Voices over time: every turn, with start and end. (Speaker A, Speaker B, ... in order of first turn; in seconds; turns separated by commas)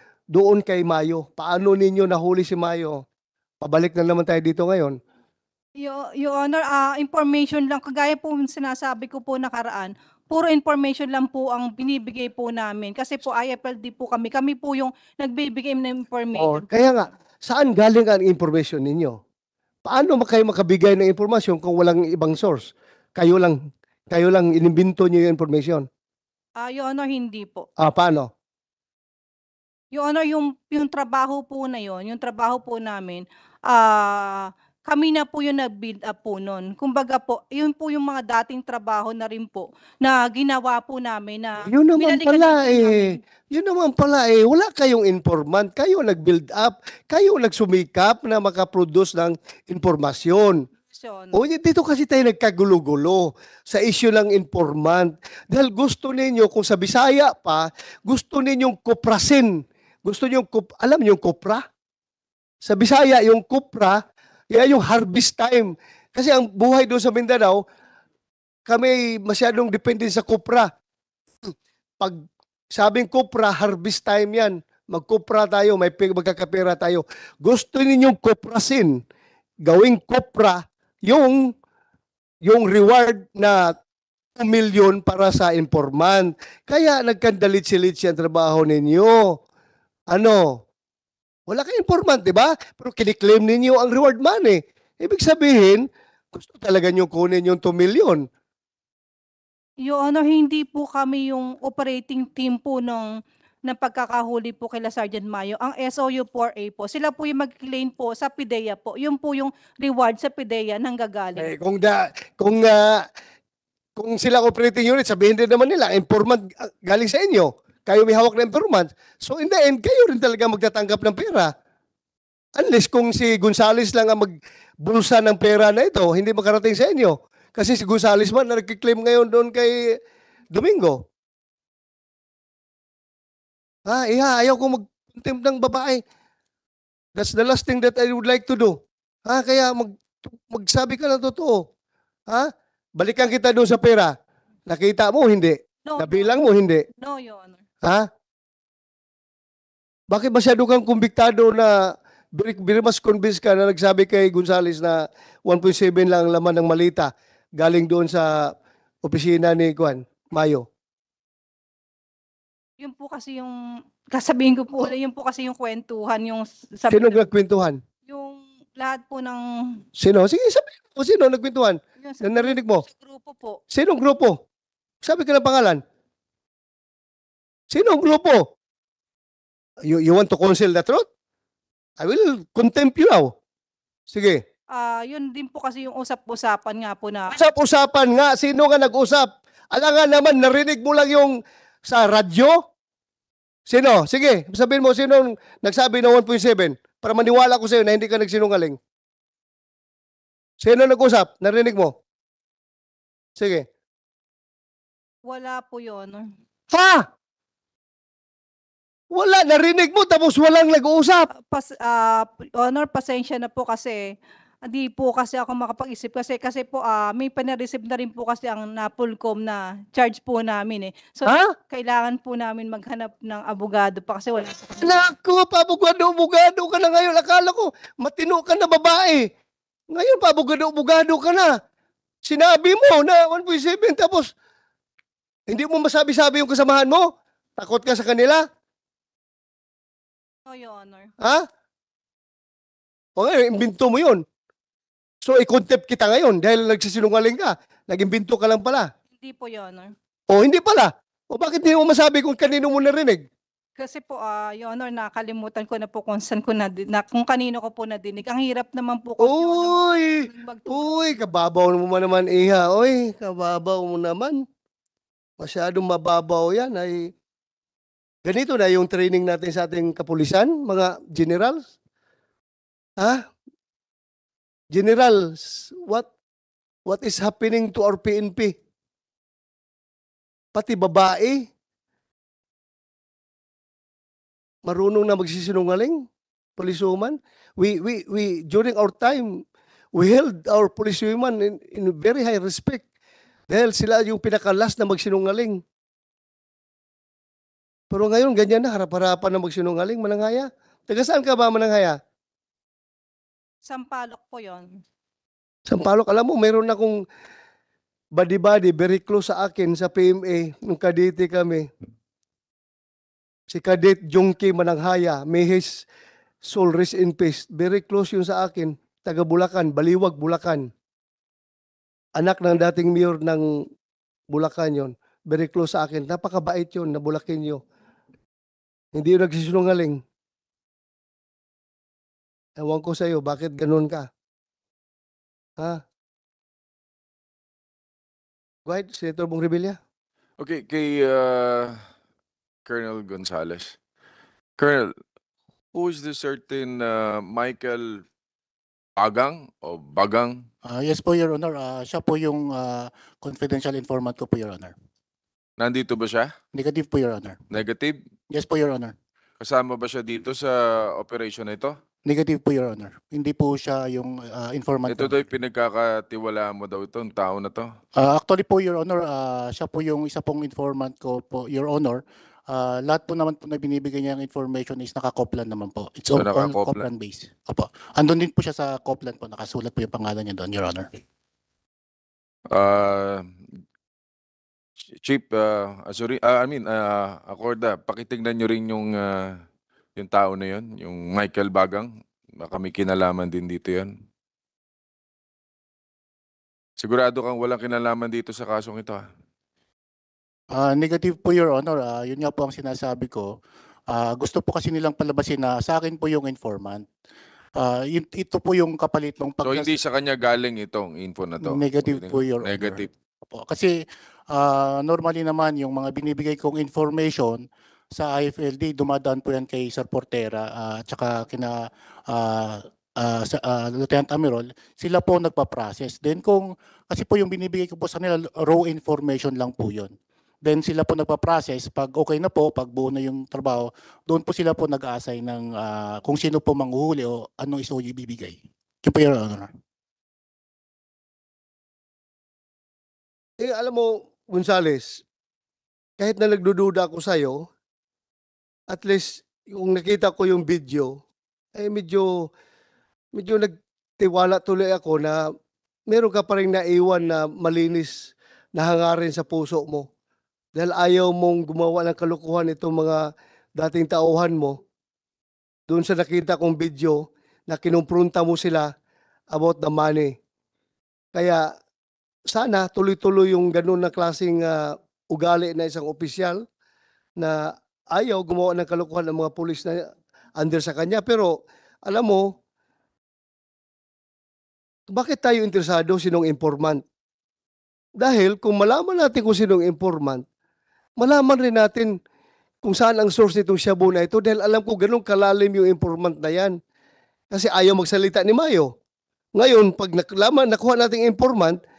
Speaker A: 0.3-3.0, Speaker A: 3.6-5.0, Speaker B: 5.8-16.7, Speaker A: 16.3-19.2, Speaker A: 19.9-23.6, Speaker A: 24.1-25.9, Speaker B: 26.6-27.7, Speaker A: 27.8-28.3, Speaker B: 29.9-43.2, Speaker A: 41.7-50.6, Speaker B: 50.8-51.5, Speaker A: 51.3-61.6, Speaker A: 62.6-67.6, Speaker A: 68.7-70.7, Speaker A: 71.4-72.2, Speaker A: 72.7-79.0, Speaker A: 79.6-81.5, Speaker A: 82.4-83.8, Speaker A: 84.4-89.4, Speaker A: 90.1-90.6, Speaker A: 91.5-98.3, Speaker B: 99.8-111.5, Speaker A: 111.4-113.0, Speaker A: 114.0-121.5, Speaker A: 122.5-130.0, Speaker A: 130.5-131.0, Speaker A: 133.9-136.0, Speaker A: 137.1-141.7, Speaker A: 142.3-144.1, Speaker A: 144.7-146.8, Speaker B: 145.8-146.4, Speaker B: 147.0-147.6, Speaker A: 150.1-160.7, Speaker B: 162.8-163.6, Speaker B: 164.1-167.3, Speaker A: 166.9-167.8, Speaker B: 168.1-169.8, Speaker A: 169.9-172.8, Speaker B: 172.0-173.6, Speaker A: 173.7-174.4, Speaker A: 175.0-175.8, Speaker A: 177.7-178.5, Speaker A: 179.8-181.1, Speaker A: 182.0-183.3, Speaker A: 184.1-184.4, Speaker B: 184.7-187.3, Speaker A: 187.3-192.6, Speaker A: 193.7-198.8, Speaker A: 200.6-201.9, Speaker A: 203.4-203.7, Speaker B: 205.2-206.3, Speaker A: 206.7-207.1, Speaker A: 209.1-211.3, Speaker B: 211.3-225.0, Speaker A: 221.3-221.5, Speaker A: 224.8-229.3, Speaker A: 229.9-231.5, Speaker A: 232.2-234.3, Speaker A: 235.5-238.4, Speaker B: 240.4-241.1, Speaker A: 243.2-244.2, Speaker A: 245.2-248.9, Speaker B: 249.1-249.9, Speaker A: 250.3-253.2, Speaker B: 253.8-261.0, Speaker A: 259.2-264.4, Speaker A: 265.4-267.1, Speaker A: 268.2-271.7, Speaker A: 274.7-276.1, Speaker A: 276.9-278.5, Speaker A: 280.5-281.4, Speaker A: 284.6-289.4, Speaker A: 289.9-292.8, Speaker A: 293.5-295.6, Speaker A: 297.9-302.0, Speaker B: 303.6-304.8, Speaker A: 305.7-307.0, Speaker A: 308.1-311.7, Speaker A: 313.5-315.8, Speaker A: 316.4-320.7, Speaker A: 322.2-323.4, Speaker A: 324.3-327.6, Speaker A: 328.9-330.0, Speaker A: 332.6-334.1, Speaker A: 338.6-339.8, Speaker C: 340.4-341.8, Speaker C: 342.6-343.7, Speaker C: 344.6-344.9, Speaker C: 345.7-348.0, Speaker C: 349.0-350.4, Speaker D: 350.6-354.7, Speaker C: 355.6-356.3, Speaker D: 356.5-357.4, Speaker C: 357.5-358.0, Speaker D: 358.3-358.9, Speaker C: 359.4-361.7, Speaker D: 362.1-365.2, Speaker C: 364.9-367.7, Speaker D: 368.0-380.9, Speaker C: 376.1-376.8, Speaker C: 382.5-383.3, Speaker C: 385.0-389.4, Speaker C: 389.9-393.9, Speaker C: 396.8-399.0, Speaker D: 400.5-403.3, Speaker D: 403.9-406.8, Speaker D: 407.6-409.8, Speaker C: 409.4-412.9, Speaker D: 411.4-439.5, Speaker A: 443.4-445.0, Speaker A: 446.0-447.4, Speaker A: 448.7-451.0, Speaker A: 451.6-452.3, Speaker A: 453.1-455.2, Speaker A: 455.9-459.9, Speaker A: 460.6-463.0, Speaker A: 463.6-464.6, Speaker A: 465.7-468.7, Speaker A: 469.3-470.1, Speaker A: 471.1-471.5, Speaker A: 472.3-476.4, Speaker A: 477.2-482.3, Speaker A: 484.9-486.8, Speaker A: 488.0-490.2, Speaker A: 491.0-491.9, Speaker A: 492.6-496.6, Speaker A: 497.3-498.7, Speaker A: 499.3-501.6